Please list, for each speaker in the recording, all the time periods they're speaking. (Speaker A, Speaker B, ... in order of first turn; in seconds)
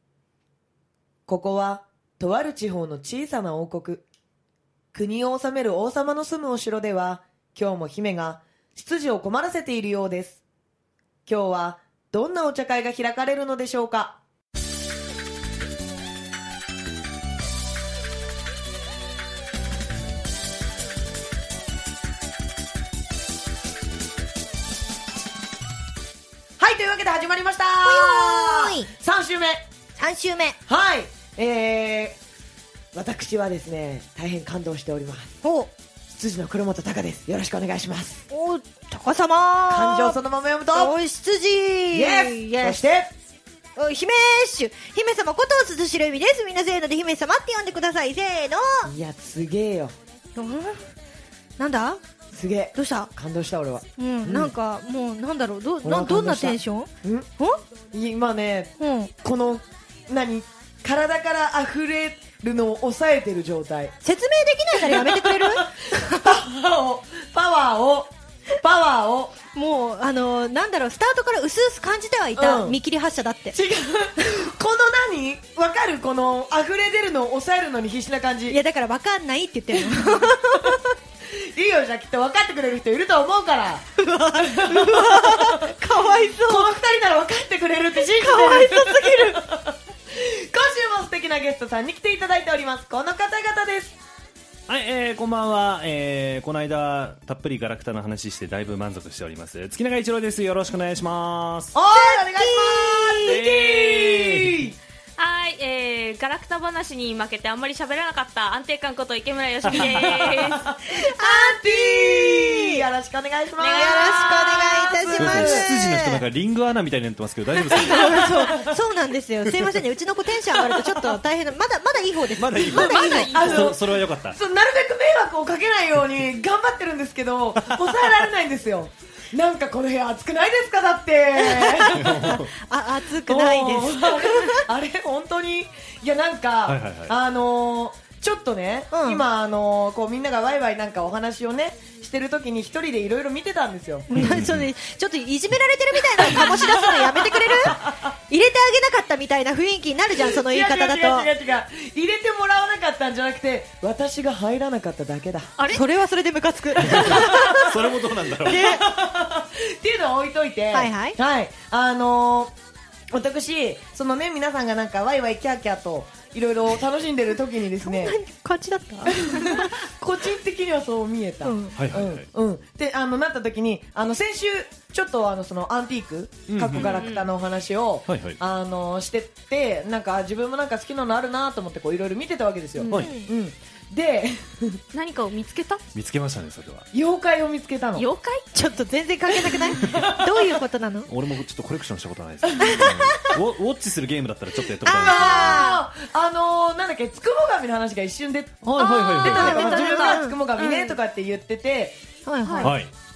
Speaker A: 1.3-4.0, 4.9-10.4, 11.2-14.2, 26.6-29.6, 30.7-32.2, 32.9-35.4, 36.1-38.2, 39.7-40.9, 41.9-43.1, 48.9-49.9, 52.3-54.5, 55.8-57.3, 57.9-63.9, 64.8-69.3, 72.3-72.8, 73.5-78.6, 79.8-80.7, 81.3-83.9, 84.4-94.0, 101.7-104.8, 109.8-114.5, 115.2-115.6, 117.7-118.8, 120.7-121.1, 122.7-132.3, 133.2-144.1, 146.2-148.1, 150.3-155.5, 156.9-157.8, 158.4-162.5, 163.1-168.2, 169.1-184.8, 186.9-188.1, 189.4-190.6, 194.8-202.0
Speaker B: 27.8-28.9, 29.9-30.6, 35.4-35.7, 38.3-40.2, 40.7-42.8, 43.8-48.9, 50.4-50.8, 51.6-52.0, 52.7-53.1, 54.0-57.6, 58.8-59.1, 64.0-66.3, 69.5-73.5, 78.5-80.8, 84.0-86.7, 88.0-89.4, 101.9-103.4, 110.9-112.8, 113.7-116.2, 117.9-123.3, 131.4-134.6, 138.9-139.2, 144.1-151.3, 155.7-157.7, 158.4-158.8, 160.7-161.2, 167.8-169.8, 171.4-171.8, 182.8-183.3, 188.5-191.1, 192.6-193.3, 194.8-195.8, 199.3-200.4, 202.2-202.7
Speaker C: 94.7-101.8, 103.2-104.7, 109.6-110.3, 115.2-118.3, 122.4-124.4, 127.6-128.0, 131.9-132.5, 136.6-137.1, 144.1-144.7, 156.8-158.8, 171.7-172.3, 176.5-177.0, 178.1-178.4, 185.9-186.9, 189.8-190.1, 191.1-195.7, 198.6-199.6, 202.6-202.9
Speaker D: 105.2-110.7, 113.6-115.3, 122.7-123.7, 176.7-177.3, 184.9-185.8, 187.9-188.5, 198.8-201.0, 202.4-202.7